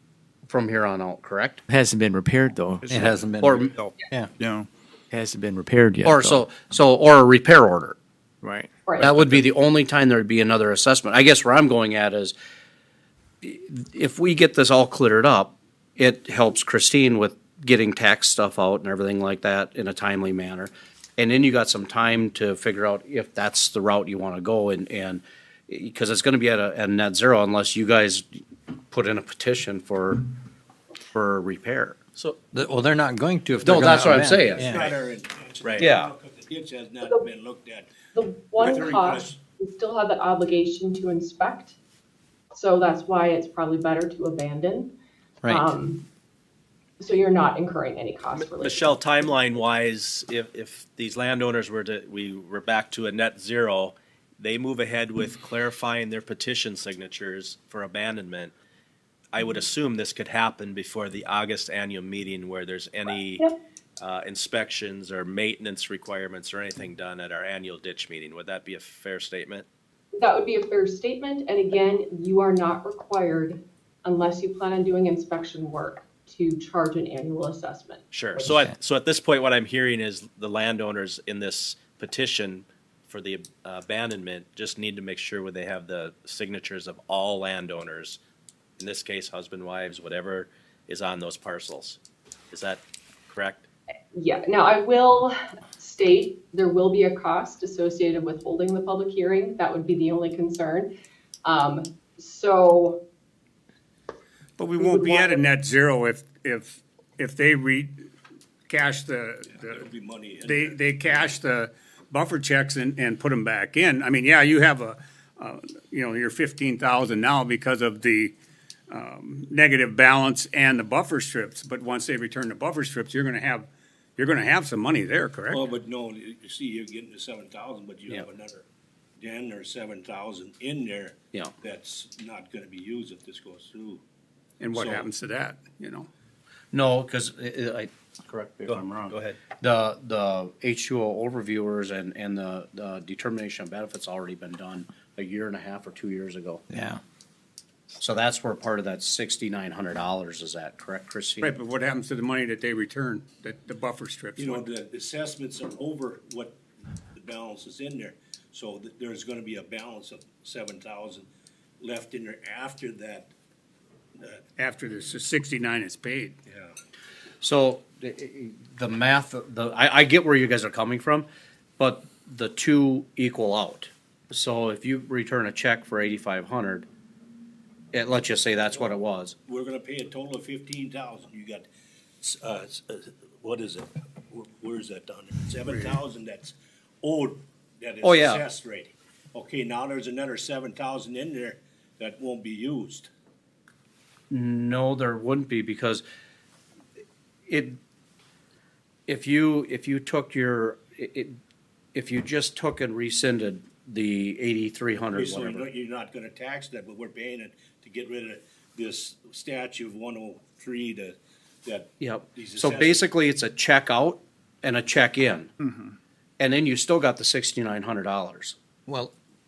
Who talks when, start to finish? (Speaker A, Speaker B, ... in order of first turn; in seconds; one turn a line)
Speaker A: 0.5-1.6
Speaker B: 1.7-3.2
Speaker C: 2.9-4.3
Speaker A: 3.4-3.7
Speaker B: 3.8-6.5
Speaker A: 6.0-8.0
Speaker B: 8.4-9.5
Speaker D: 8.8-9.2
Speaker A: 9.0-12.3
Speaker A: 13.4-28.4
Speaker A: 28.9-30.2
Speaker A: 31.1-32.0
Speaker C: 32.5-34.8
Speaker A: 33.6-34.8
Speaker E: 34.3-39.4
Speaker F: 35.6-35.9
Speaker A: 35.8-36.1
Speaker D: 38.1-41.8
Speaker D: 42.5-45.0
Speaker C: 45.4-45.7
Speaker D: 45.5-46.0
Speaker D: 47.0-49.3
Speaker F: 48.4-58.5
Speaker F: 59.3-69.7
Speaker D: 70.2-78.6
Speaker F: 78.1-88.2
Speaker F: 88.8-92.0
Speaker F: 92.5-92.8
Speaker F: 93.3-93.7
Speaker D: 94.1-100.9
Speaker D: 101.5-103.0
Speaker G: 104.6-107.9
Speaker D: 104.7-105.7
Speaker G: 108.7-109.8
Speaker E: 109.6-111.3
Speaker G: 110.4-118.3
Speaker G: 118.9-125.6
Speaker E: 125.5-128.7
Speaker E: 129.2-134.0
Speaker G: 134.6-136.1
Speaker E: 134.7-135.1
Speaker A: 136.7-146.6
Speaker F: 138.7-139.4
Speaker C: 146.7-147.0
Speaker A: 148.0-151.6
Speaker D: 151.4-151.8
Speaker G: 151.6-154.5
Speaker E: 154.4-156.6
Speaker E: 157.1-161.3
Speaker E: 161.8-163.3
Speaker G: 164.7-166.3
Speaker E: 166.5-166.7
Speaker A: 167.4-171.3
Speaker A: 171.8-176.9
Speaker A: 177.9-179.3
Speaker E: 179.5-181.7
Speaker E: 182.2-193.1
Speaker A: 188.0-188.4
Speaker A: 194.3-196.0
Speaker A: 197.5-197.8
Speaker A: 199.1-201.4
Speaker A: 201.9-205.7
Speaker E: 205.1-213.1
Speaker A: 212.0-215.5
Speaker A: 216.4-218.6
Speaker C: 218.9-219.2